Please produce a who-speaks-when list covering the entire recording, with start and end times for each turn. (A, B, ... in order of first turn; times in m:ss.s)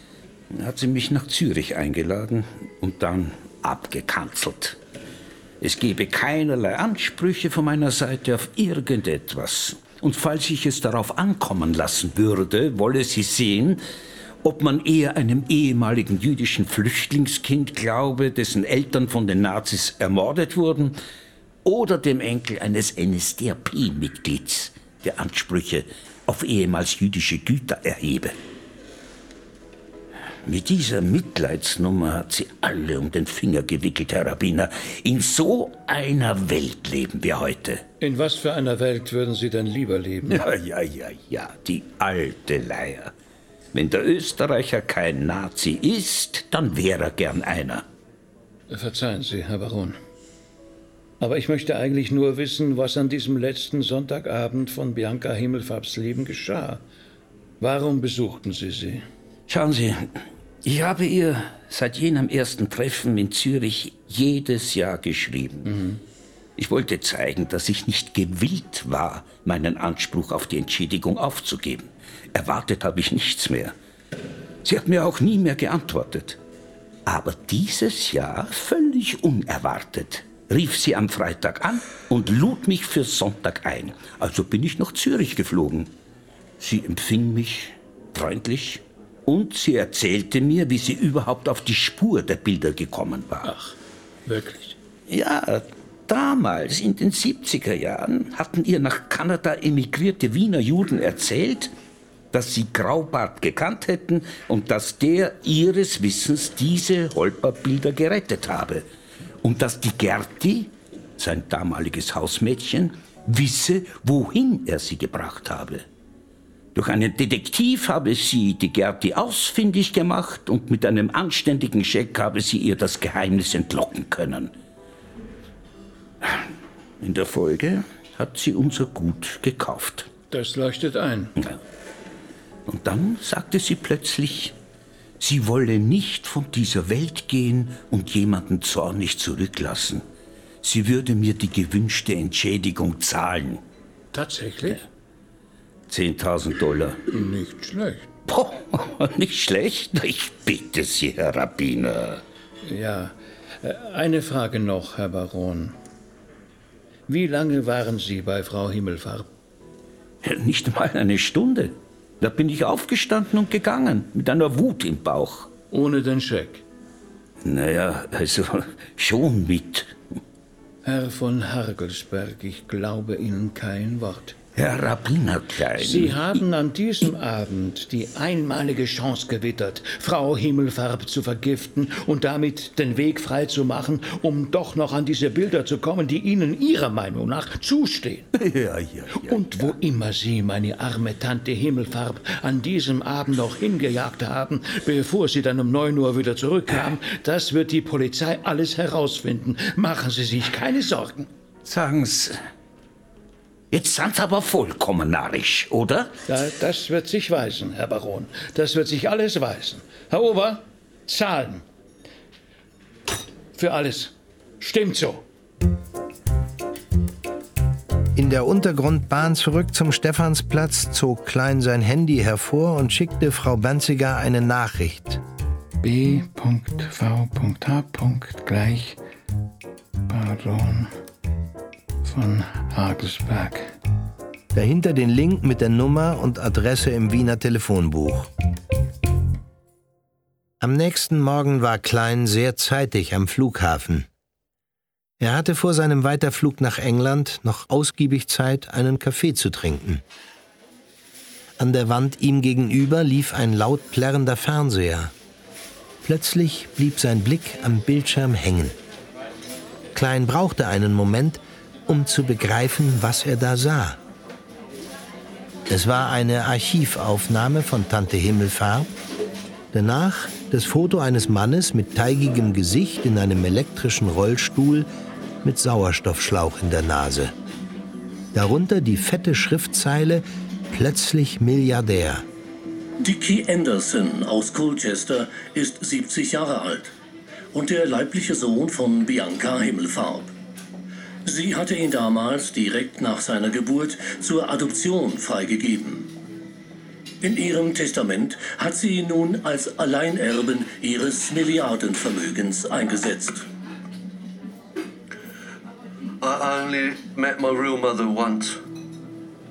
0:00.5-0:04.8 A
0:05.6-0:13.8 A
0:14.4-0:21.0 A
0:21.6-0:28.4 A
0:30.4-0:37.8 A
0:38.0-0:40.4 B
0:40.3-0:43.1 A
0:43.7-0:47.8 A
0:48.7-0:50.0 B
0:51.2-0:56.8 B
0:57.6-0:59.0 B
0:59.5-1:05.7 A
1:05.6-1:06.0 B
1:06.6-1:13.7 A
1:14.6-1:16.4 A
1:17.0-1:25.9 A
1:26.6-1:33.5 A
1:33.4-1:33.7 B
1:34.3-1:34.8 B
1:35.1-1:41.7 A
1:42.3-1:48.8 A
1:49.4-1:55.8 A
1:56.7-2:04.5 A
2:06.2-2:10.1 A
2:10.3-2:11.3 B
2:12.7-2:14.5 A
2:15.2-2:20.0 A
2:20.6-2:23.6 A
2:24.1-2:24.8 B
2:25.9-2:27.1 A
2:27.1-2:28.1 B
2:28.3-2:32.2 A
2:32.6-2:35.7 B
2:37.1-2:39.3 B
2:40.2-2:45.5 A
2:45.7-2:46.6 B
2:47.4-2:49.9 A
2:50.8-2:54.4 B
2:54.6-2:56.4 A
2:55.8-3:08.3 B
3:08.3-3:09.7 A
3:09.1-3:21.3 B
3:21.6-3:22.4 A
3:23.7-3:26.1 A
3:26.3-3:31.6 B
3:33.5-3:35.2 B
3:38.1-3:45.2 C
3:45.8-3:49.0 B
3:50.1-3:50.9 B
3:52.0-3:53.8 B
3:54.5-3:58.3 C
4:00.6-4:04.1 C
4:05.2-4:10.0 C
4:11.6-4:15.1 C
4:16.0-4:18.8 C
4:19.9-4:24.0 C
4:25.7-4:28.9 C
4:29.7-4:34.9 C
4:35.4-4:37.3 C
4:38.3-4:42.2 C
4:43.0-4:46.9 D
4:47.5-4:50.3 D
4:51.2-4:56.1 D
4:57.2-5:03.4 D
5:06.2-5:08.6 E